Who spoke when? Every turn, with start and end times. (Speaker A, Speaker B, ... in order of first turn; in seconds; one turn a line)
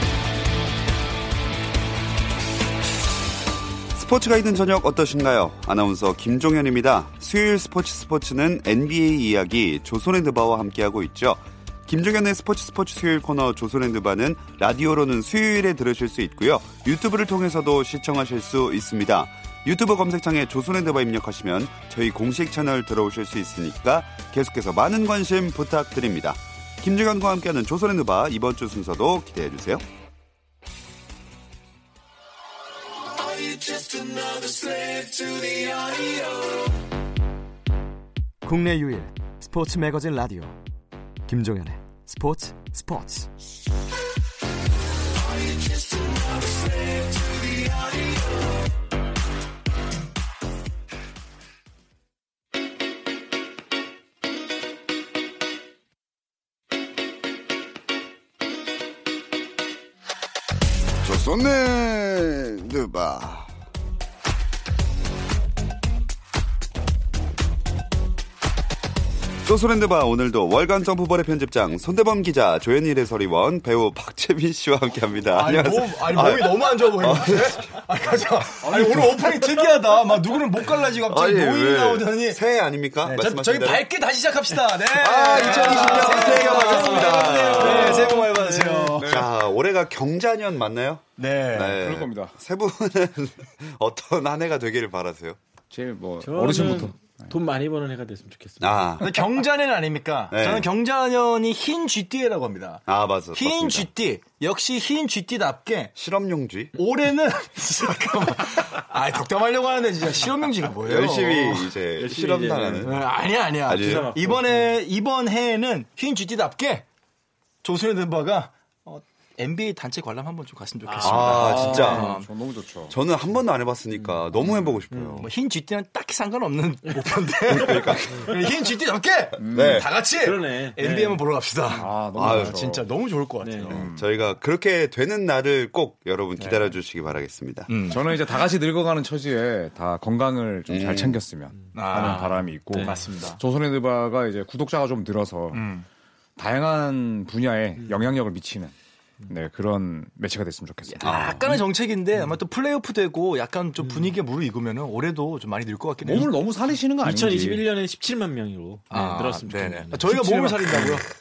Speaker A: 3.9-29.8
Speaker B: 33.1-36.7
Speaker B: 38.4-40.6
Speaker B: 41.3-43.3
Speaker B: 45.2-48.7
Speaker A: 61.0-63.5
Speaker A: 69.4-77.7
Speaker C: 75.3-82.4
Speaker D: 78.6-79.6
Speaker A: 81.0-83.9
Speaker C: 83.0-89.3
Speaker A: 84.9-88.2
Speaker E: 85.4-89.0
Speaker D: 85.5-88.2
Speaker D: 89.0-89.3
Speaker A: 89.0-95.4
Speaker C: 91.2-91.8
Speaker D: 91.8-92.4
Speaker D: 95.7-97.3
Speaker E: 96.2-98.9
Speaker A: 98.6-99.2
Speaker C: 99.0-105.9
Speaker A: 100.3-100.7
Speaker A: 102.9-103.9
Speaker A: 106.0-106.7
Speaker C: 106.7-111.8
Speaker A: 110.8-113.1
Speaker E: 111.9-113.0
Speaker C: 112.8-116.8
Speaker A: 113.7-114.1
Speaker E: 113.8-114.8
Speaker C: 117.6-122.3
Speaker E: 120.8-122.1
Speaker A: 121.0-122.1
Speaker D: 121.3-123.0
Speaker A: 122.9-125.3
Speaker E: 124.9-125.3
Speaker C: 125.2-133.8
Speaker A: 127.5-128.3
Speaker E: 127.7-128.3
Speaker D: 129.4-129.9
Speaker A: 129.4-129.9
Speaker E: 130.2-131.2
Speaker D: 131.7-132.9
Speaker A: 132.1-132.6
Speaker E: 133.4-133.8
Speaker A: 133.7-137.7
Speaker D: 133.7-134.1
Speaker C: 136.3-136.8
Speaker C: 137.7-138.1
Speaker D: 137.9-145.7
Speaker A: 140.7-141.2
Speaker E: 141.7-143.1
Speaker C: 141.7-143.4
Speaker C: 145.5-145.8
Speaker D: 146.4-148.7
Speaker D: 149.3-151.2
Speaker C: 150.9-156.3
Speaker A: 151.0-151.4
Speaker D: 156.0-157.6
Speaker E: 157.0-161.0
Speaker C: 158.9-161.1
Speaker D: 160.1-160.6